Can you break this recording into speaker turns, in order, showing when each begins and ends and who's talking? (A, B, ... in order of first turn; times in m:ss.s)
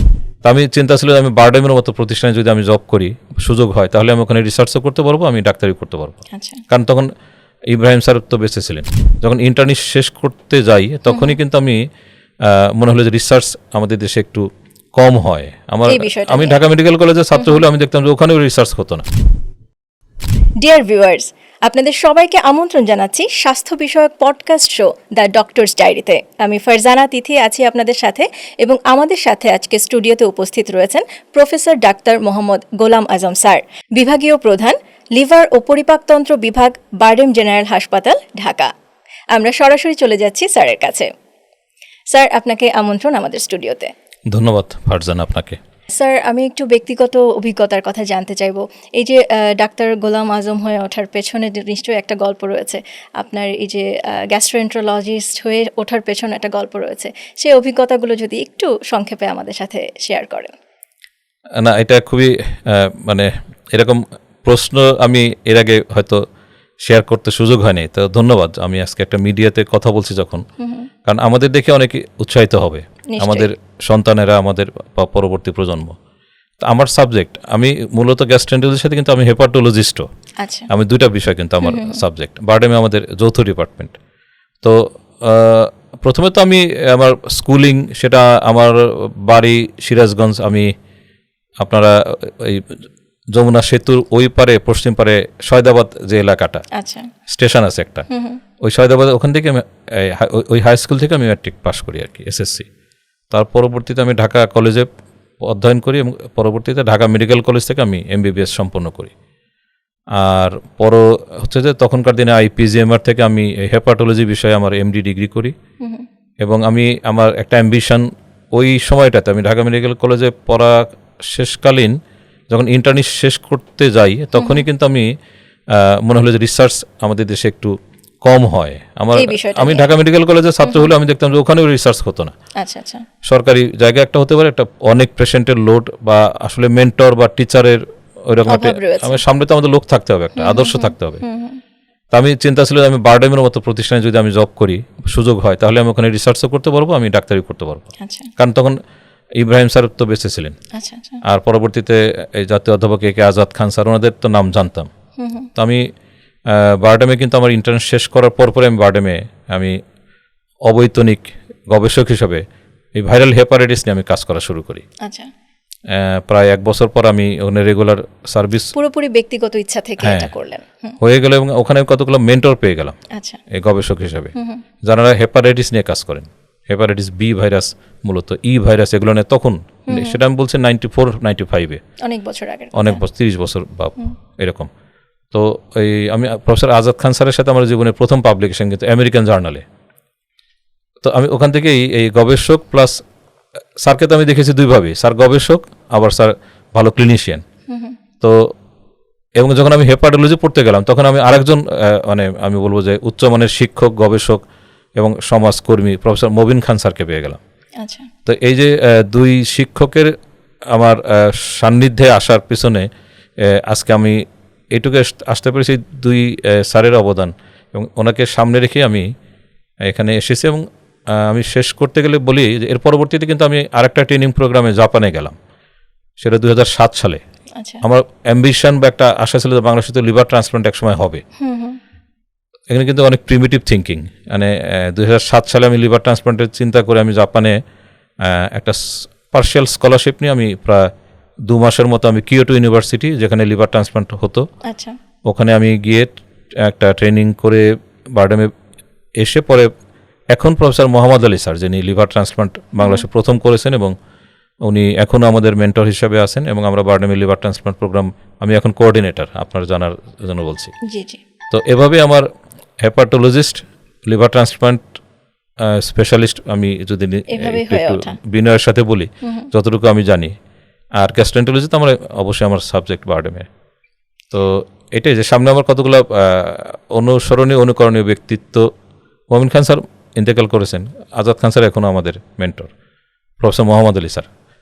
0:00.4-0:06.2 A
0:06.3-0:06.6 B
0:06.7-0:07.1 A
0:07.7-0:11.8 A
0:11.1-0:11.4 B
0:12.4-0:19.1 A
0:15.9-0:16.6 B
0:17.4-0:17.6 B
0:20.6-0:38.7 B
0:39.3-0:41.1 B
0:42.1-0:43.9 B
0:44.3-0:45.6 A
0:45.9-1:00.6 B
1:01.6-1:06.2 A
1:06.8-1:10.4 A
1:10.6-1:10.9 B
1:11.0-1:16.0 A
1:13.1-1:13.5 B
1:16.6-1:20.1 A
1:20.4-1:20.7 B
1:20.7-1:24.0 A
1:21.6-1:22.0 B
1:24.6-1:30.7 A
1:31.6-1:32.8 A
1:33.3-1:36.6 A
1:36.7-1:37.1 B
1:37.3-1:38.1 A
1:38.1-1:38.4 B
1:38.6-1:42.7 A
1:43.3-1:44.9 A
1:45.4-1:49.1 A
1:50.2-1:55.6 A
1:56.4-2:02.0 A
2:02.5-2:05.1 A
2:04.4-2:04.7 B
2:05.7-2:12.4 A
2:09.2-2:09.9 B
2:10.6-2:10.9 B
2:12.6-2:13.0 B
2:13.2-2:21.2 A
2:18.5-2:19.2 B
2:20.4-2:21.6 B
2:22.1-2:28.8 A
2:28.0-2:28.3 B
2:29.4-2:30.6 A
2:30.7-2:31.2 B
2:31.2-2:34.9 A
2:35.2-2:35.5 B
2:35.6-2:35.9 A
2:36.5-2:39.8 A
2:40.7-2:44.8 A
2:45.0-2:45.3 B
2:45.9-2:48.7 A
2:48.7-2:51.0 B
2:50.0-2:50.3 A
2:51.0-2:53.0 A
2:53.1-2:53.4 B
2:53.5-3:01.8 A
2:54.4-2:54.6 B
2:59.9-3:00.2 B
3:02.0-3:03.0 B
3:02.7-3:04.7 A
3:05.3-3:09.6 A
3:11.0-3:13.0 A
3:13.8-3:17.4 A
3:17.7-3:18.0 B
3:18.2-3:18.5 A
3:19.4-3:24.4 A
3:25.0-3:27.4 A
3:27.8-3:28.1 B
3:28.3-3:30.2 A
3:30.7-3:32.9 A
3:33.4-3:39.1 A
3:39.8-3:45.4 A
3:46.2-3:47.2 A
3:47.6-3:47.8 B
3:47.8-3:51.2 A
3:51.4-3:51.8 B
3:52.7-3:57.6 A
3:58.2-4:00.9 A
4:01.5-4:04.5 A
4:04.6-4:05.0 B
4:05.3-4:08.5 A
4:09.2-4:09.7 A
4:10.3-4:14.0 A
4:12.8-4:13.0 B
4:14.6-4:20.7 A
4:20.8-4:21.2 B
4:21.5-4:22.3 A
4:22.8-4:25.0 A
4:25.6-4:30.3 A
4:27.3-4:28.2 B
4:29.2-4:29.5 B
4:31.0-4:33.5 A
4:34.3-4:38.7 A
4:39.3-4:42.7 A
4:43.4-4:44.3 A